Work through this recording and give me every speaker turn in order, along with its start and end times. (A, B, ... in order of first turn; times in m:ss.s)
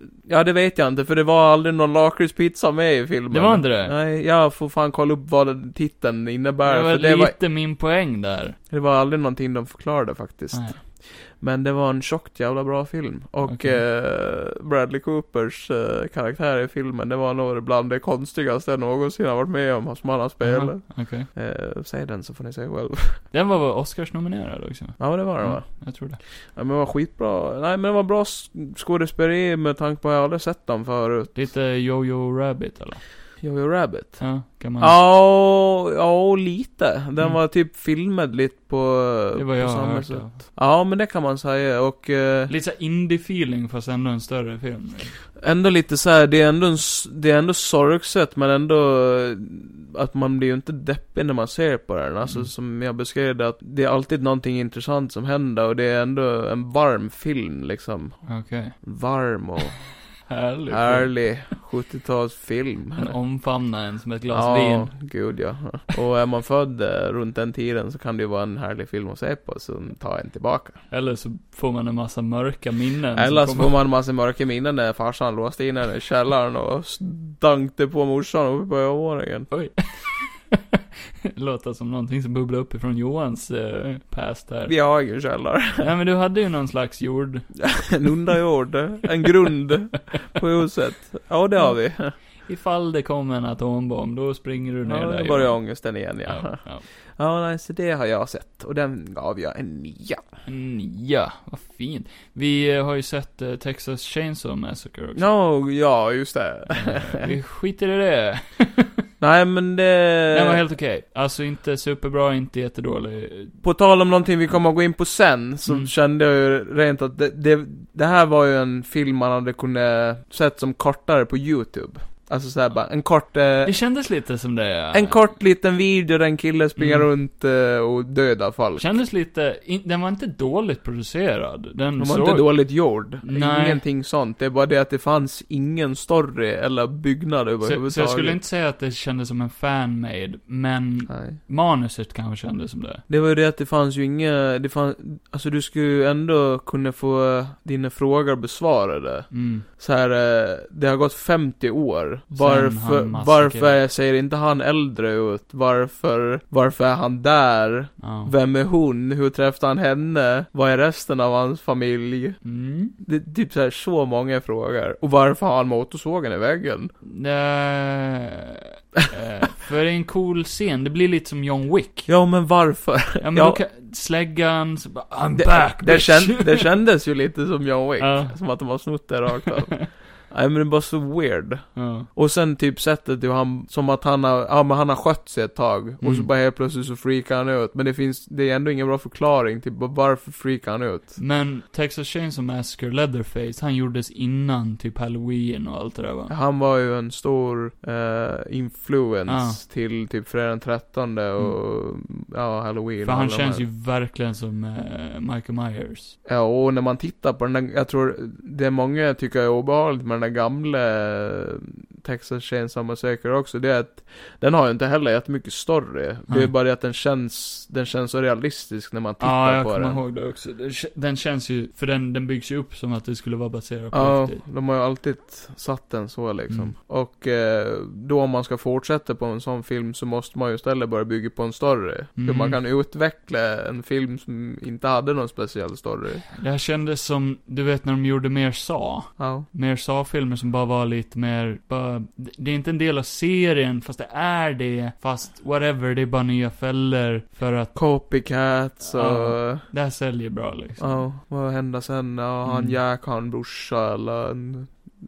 0:00.2-0:07.4 A
0:03.3-0:04.0 B
0:06.7-0:08.6 B
0:08.7-0:23.2 A
0:10.5-0:10.8 B
0:13.4-0:13.8 B
0:20.4-0:21.3 B
0:23.3-0:26.2 B
0:25.0-0:31.3 A
0:31.3-0:33.1 B
0:33.4-0:42.5 A
0:34.2-0:35.0 B
0:39.4-0:40.5 B
0:42.5-0:45.2 B
0:45.4-0:59.9 A
0:58.3-0:58.8 B
1:00.3-1:01.4 B
1:00.7-1:03.2 A
1:03.0-1:04.9 B
1:04.3-1:10.8 A
1:10.9-1:13.7 B
1:13.1-1:19.5 A
1:19.5-1:20.6 B
1:21.3-1:24.8 B
1:24.7-1:25.9 A
1:25.8-1:28.1 B
1:27.6-1:32.2 A
1:31.6-1:36.9 B
1:34.8-1:40.2 A
1:40.5-1:45.2 B
1:45.2-1:47.3 A
1:46.7-1:48.9 B
1:49.2-1:50.6 A
1:50.3-1:53.5 B
1:53.6-2:03.8 A
2:03.6-2:05.3 B
2:04.9-2:08.9 A
2:06.8-2:07.1 B
2:08.8-2:13.8 B
2:12.0-2:18.4 A
2:17.6-2:23.0 B
2:21.1-2:21.4 A
2:23.1-2:42.4 A
2:29.3-2:29.7 B
2:32.3-2:33.8 B
2:38.0-2:38.3 B
2:42.4-2:43.0 B
2:43.0-2:46.9 A
2:47.0-2:52.2 B
2:52.1-2:53.6 A
2:53.2-2:56.7 B
2:55.4-3:11.2 A
2:58.0-2:59.8 B
3:01.8-3:02.1 B
3:06.0-3:06.3 B
3:11.2-3:16.3 B
3:16.3-3:23.6 A
3:19.3-3:19.6 B
3:23.0-3:26.2 B
3:26.2-3:40.0 A
3:39.2-3:44.4 B
3:43.9-3:56.2 A
3:52.2-3:52.6 B
3:56.3-4:07.8 B
3:59.2-3:59.5 A
4:07.8-4:09.7 A
4:08.9-4:11.0 B
4:10.8-4:14.8 A
4:12.4-4:12.8 B